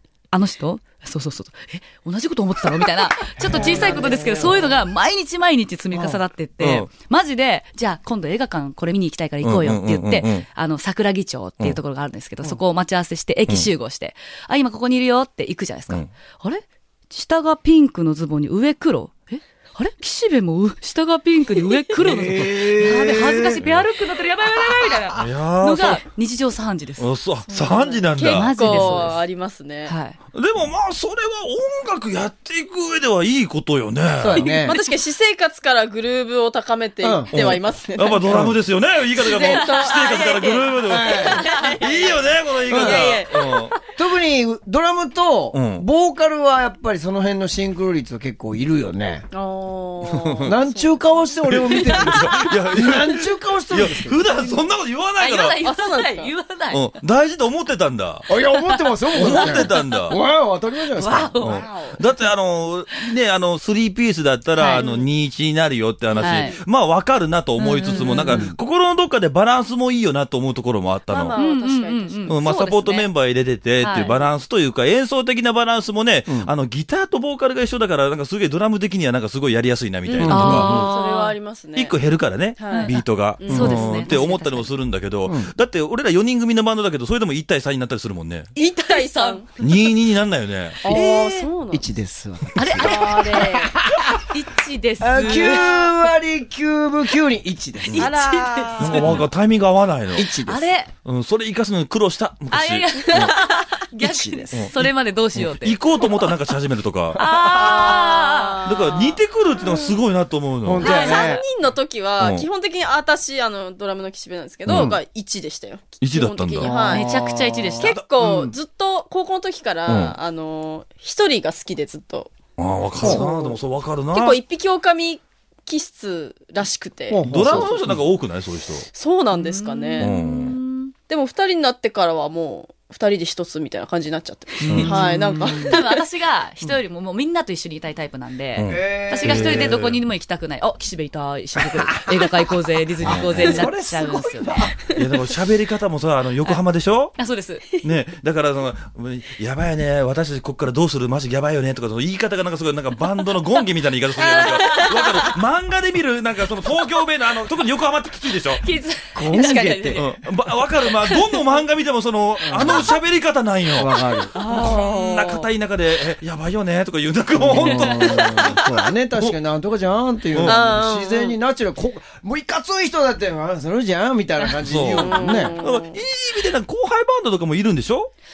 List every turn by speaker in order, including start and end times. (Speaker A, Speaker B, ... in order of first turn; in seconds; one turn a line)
Speaker A: 0.3-27.1
Speaker B: 3.4-4.8
Speaker C: 3.6-4.3
Speaker B: 5.9-6.2
Speaker D: 6.6-6.9
Speaker D: 9.4-10.5
Speaker B: 22.0-23.6
Speaker D: 22.4-23.9
Speaker D: 25.1-26.0
Speaker D: 27.0-29.1
Speaker C: 27.5-29.9
Speaker A: 28.2-29.2
Speaker A: 29.9-30.2
Speaker D: 30.3-34.6
Speaker B: 34.2-34.8
Speaker C: 34.4-38.5
Speaker B: 37.0-37.4
Speaker D: 37.3-43.8
Speaker B: 38.3-38.6
Speaker C: 39.1-43.8
Speaker A: 39.4-39.9
Speaker B: 40.9-41.4
Speaker A: 41.4-41.8
Speaker B: 42.7-43.2
Speaker B: 44.0-49.3
Speaker D: 45.5-45.9
Speaker C: 49.3-51.0
Speaker D: 50.0-50.5
Speaker B: 50.4-54.3
Speaker D: 51.5-55.6
Speaker A: 55.2-57.0
Speaker C: 55.6-56.3
Speaker D: 56.7-58.3
Speaker B: 58.3-61.4
Speaker A: 58.7-60.1
Speaker D: 59.1-60.2
Speaker A: 61.0-61.7
Speaker D: 61.4-71.4
Speaker C: 61.4-62.1
Speaker A: 64.6-64.9
Speaker C: 64.8-65.1
Speaker C: 66.1-66.6
Speaker A: 66.2-66.6
Speaker A: 67.6-68.5
Speaker B: 68.3-68.6
Speaker C: 71.1-72.4
Speaker A: 71.3-73.1
Speaker D: 72.3-80.9
Speaker A: 73.8-74.1
Speaker C: 74.0-74.3
Speaker C: 80.1-82.0
Speaker B: 80.2-80.9
Speaker A: 80.3-81.4
Speaker D: 81.8-88.5
Speaker C: 82.6-84.3
Speaker A: 82.7-83.0
Speaker A: 83.5-84.7
Speaker B: 83.5-83.9
Speaker C: 88.6-89.5
Speaker A: 88.8-89.4
Speaker D: 89.6-90.8
Speaker C: 90.8-91.8
Speaker B: 90.8-94.2
Speaker A: 92.6-93.5
Speaker C: 92.8-93.7
Speaker A: 94.3-95.9
Speaker B: 95.0-99.2
Speaker A: 97.9-99.2
Speaker C: 98.0-99.0
Speaker D: 98.8-100.3
Speaker B: 100.1-100.7
Speaker A: 100.5-100.9
Speaker D: 101.0-103.3
Speaker A: 102.5-106.1
Speaker C: 103.1-103.6
Speaker B: 104.0-104.7
Speaker D: 104.5-107.2
Speaker A: 107.2-108.6
Speaker B: 107.2-107.9
Speaker C: 107.4-109.9
Speaker D: 108.6-111.0
Speaker B: 110.6-111.4
Speaker A: 110.8-111.3
Speaker C: 110.8-117.1
Speaker D: 112.2-112.5
Speaker D: 114.7-115.0
Speaker D: 116.0-116.8
Speaker B: 116.6-118.6
Speaker A: 116.9-118.0
Speaker C: 117.8-122.3
Speaker D: 119.9-120.2
Speaker D: 122.6-124.4
Speaker B: 123.0-123.3
Speaker C: 123.0-123.5
Speaker C: 124.1-127.7
Speaker B: 127.1-128.0
Speaker D: 127.2-128.9
Speaker C: 128.9-130.1
Speaker A: 129.3-130.9
Speaker D: 130.0-130.6
Speaker C: 131.1-136.0
Speaker A: 134.6-144.7
Speaker D: 134.7-135.0
Speaker B: 134.7-135.5
Speaker D: 138.6-140.0
Speaker B: 138.6-140.0
Speaker B: 141.6-142.3
Speaker B: 143.0-144.8
Speaker D: 143.0-143.7
Speaker D: 144.9-147.1
Speaker A: 147.2-147.6
Speaker D: 147.8-158.6
Speaker C: 154.2-155.3
Speaker A: 158.6-160.1
Speaker B: 159.1-160.1
Speaker D: 159.9-168.6
Speaker A: 161.0-161.4
Speaker B: 162.4-162.9
Speaker B: 163.8-164.3
Speaker A: 164.3-164.8
Speaker C: 164.3-165.5
Speaker B: 167.4-175.6
Speaker C: 167.7-168.6
Speaker D: 170.3-170.6
Speaker C: 170.4-171.4
Speaker D: 174.6-178.1
Speaker C: 175.0-176.0